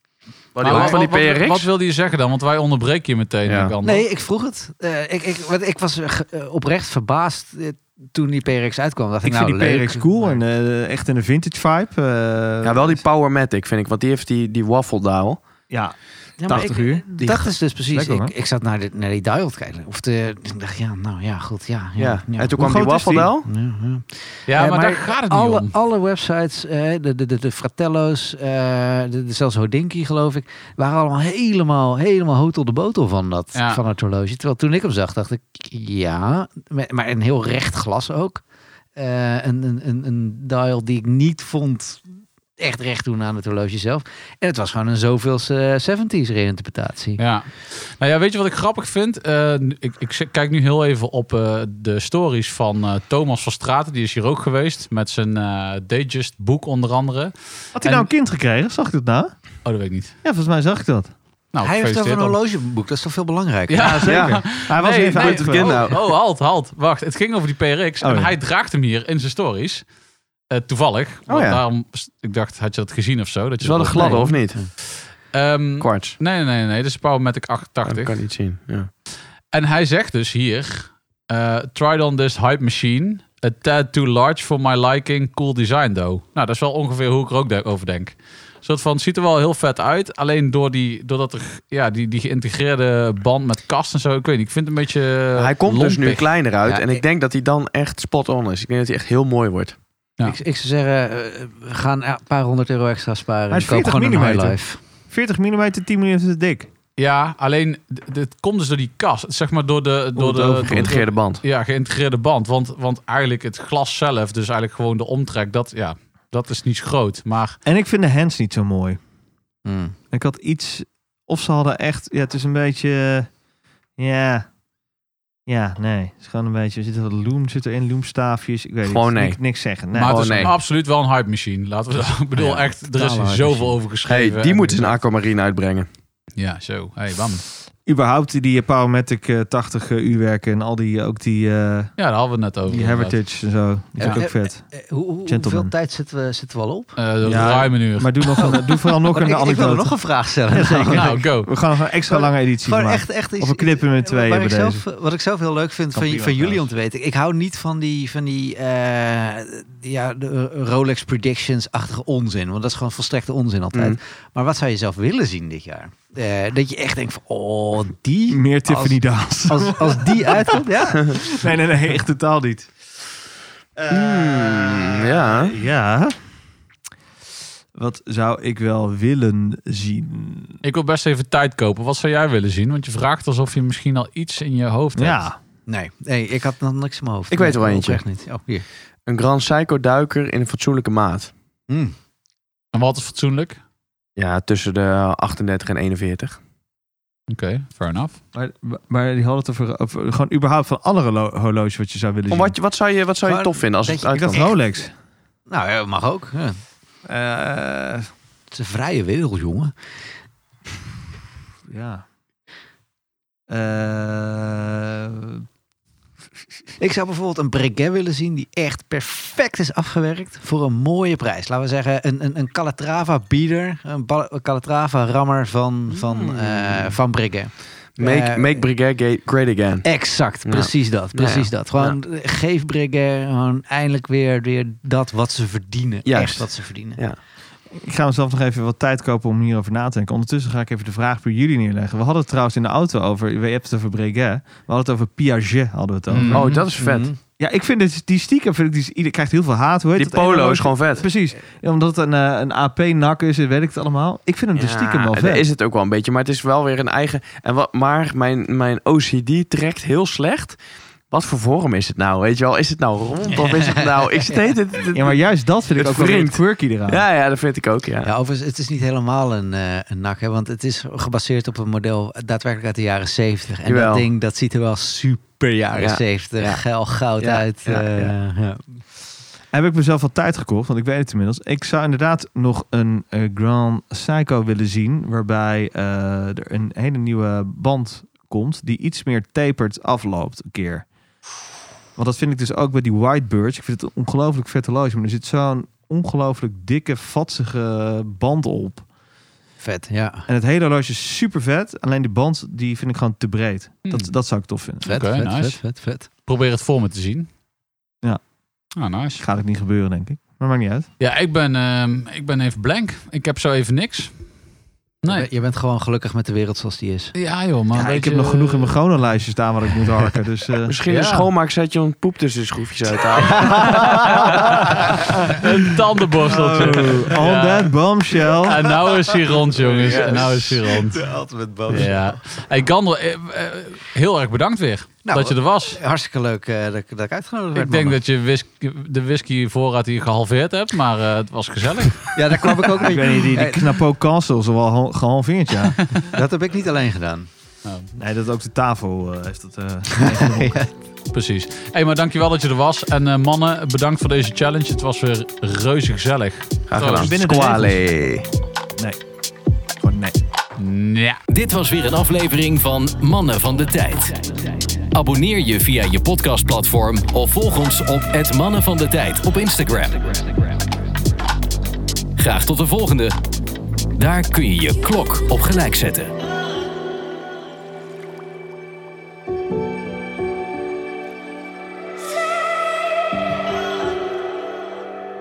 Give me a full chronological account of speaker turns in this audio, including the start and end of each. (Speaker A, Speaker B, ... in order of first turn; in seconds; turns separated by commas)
Speaker A: 0.5-1.7, Speaker B: 0.6-4.1, Speaker C: 0.6-0.9, Speaker A: 3.5-3.7, Speaker C: 3.8-10.4, Speaker D: 9.2-13.0, Speaker A: 12.6-15.4, Speaker D: 15.7-18.3, Speaker C: 16.4-22.6, Speaker A: 22.0-23.5, Speaker D: 22.5-23.3, Speaker C: 23.4-38.4, Speaker B: 24.5-25.7, Speaker B: 33.5-33.8, Speaker C: 39.0-42.0, Speaker C: 42.6-47.2, Speaker B: 47.2-58.1, Speaker D: 57.8-59.3, Speaker B: 59.6-60.1, Speaker D: 60.2-61.1, Speaker B: 61.5-62.3, Speaker C: 61.6-64.1, Speaker B: 63.7-69.8, Speaker D: 63.8-65.8, Speaker A: 64.1-64.4, Speaker A: 65.2-65.9, Speaker D: 68.0-68.3, Speaker B: 70.5-74.8, Speaker A: 71.3-71.6, Speaker A: 73.6-74.6, Speaker C: 73.9-74.7, Speaker B: 75.3-78.2, Speaker A: 75.8-76.2, Speaker A: 77.8-78.9, Speaker B: 79.5-96.3, Speaker A: 95.3-99.8, Speaker C: 96.6-97.0, Speaker C: 100.2-104.8, Speaker D: 103.5-106.7, Speaker B: 107.0-117.6, Speaker D: 110.2-111.0, Speaker A: 110.7-111.4, Speaker D: 117.6-119.0, Speaker C: 119.6-119.9, Speaker D: 120.1-123.3, Speaker D: 124.0-124.5, Speaker D: 125.5-130.5, Speaker A: 128.8-129.4, Speaker B: 129.9-135.0, Speaker A: 130.0-130.5, Speaker C: 132.3-133.8, Speaker A: 134.1-135.9, Speaker B: 136.4-137.4, Speaker D: 137.8-141.9, Speaker B: 142.0-143.2, Speaker D: 142.7-144.7, Speaker C: 144.0-147.0, Speaker D: 145.2-145.7, Speaker B: 147.0-148.5, Speaker D: 147.2-149.9, Speaker C: 148.3-151.2, Speaker D: 150.5-154.8, Speaker B: 150.9-151.5, Speaker C: 152.1-171.4, Speaker D: 155.9-156.7, Speaker D: 168.3-172.7, Speaker D: 173.8-176.2, Speaker A: 173.9-175.6, Speaker D: 177.7-180.6, Speaker B: 180.6-185.2, Speaker D: 184.9-185.4, Speaker C: 185.7-188.6, Speaker A: 187.3-188.0, Speaker A: 189.1-191.3, Speaker C: 191.7-191.9, Speaker B: 192.7-193.6, Speaker A: 194.2-196.4, Speaker B: 197.3-198.2, Speaker D: 198.3-202.5, Speaker A: 202.3-204.4, Speaker C: 203.2-204.6, Speaker D: 204.1-204.9, Speaker C: 205.5-206.6, Speaker D: 207.1-208.1, Speaker C: 208.5-209.7, Speaker D: 211.7-212.0, Speaker D: 213.5-215.4, Speaker C: 216.8-228.7, Speaker A: 225.9-227.0, Speaker A: 228.0-232.0, Speaker C: 229.8-237.0, Speaker A: 236.0-237.2, Speaker D: 237.7-246.5, Speaker B: 246.1-246.7, Speaker A: 246.3-247.1, Speaker C: 246.8-247.2, Speaker D: 247.4-255.4, Speaker A: 250.0-251.1, Speaker A: 254.5-265.2, Speaker C: 263.5-264.4, Speaker D: 264.9-267.0, Speaker A: 265.8-268.1, Speaker C: 268.0-278.8, Speaker A: 273.6-274.1, Speaker A: 275.8-276.6, Speaker A: 277.2-278.1, Speaker D: 279.5-290.9, Speaker D: 292.0-298.8, Speaker C: 299.6-300.3, Speaker D: 300.3-304.9, Speaker B: 303.8-304.1, Speaker C: 304.8-306.1, Speaker B: 304.8-305.6, Speaker B: 306.2-307.3, Speaker B: 308.8-309.2, Speaker D: 309.2-310.9, Speaker B: 311.0-314.1, Speaker B: 315.0-315.3, Speaker C: 315.0-317.1, Speaker B: 317.1-318.8, Speaker D: 317.7-320.8, Speaker A: 320.7-325.1, Speaker B: 320.9-321.3, Speaker C: 323.4-324.1, Speaker D: 323.7-325.1, Speaker B: 324.3-327.7, Speaker D: 326.2-328.7, Speaker B: 328.4-331.0, Speaker A: 329.6-330.5, Speaker C: 330.7-332.0, Speaker B: 331.7-335.8, Speaker C: 335.0-338.0, Speaker B: 337.5-342.1, Speaker C: 342.1-343.7, Speaker D: 342.7-345.8, Speaker B: 345.8-346.1, Speaker C: 346.1-347.3, Speaker B: 347.6-347.9, Speaker D: 347.9-350.6, Speaker C: 349.9-350.7, Speaker B: 351.1-357.1, Speaker A: 356.7-358.2, Speaker D: 356.9-357.9, Speaker D: 359.8-360.1, Speaker B: 360.6-361.2, Speaker E: 361.3-370.4, Speaker E: 372.2-373.1, Speaker E: 374.0-376.1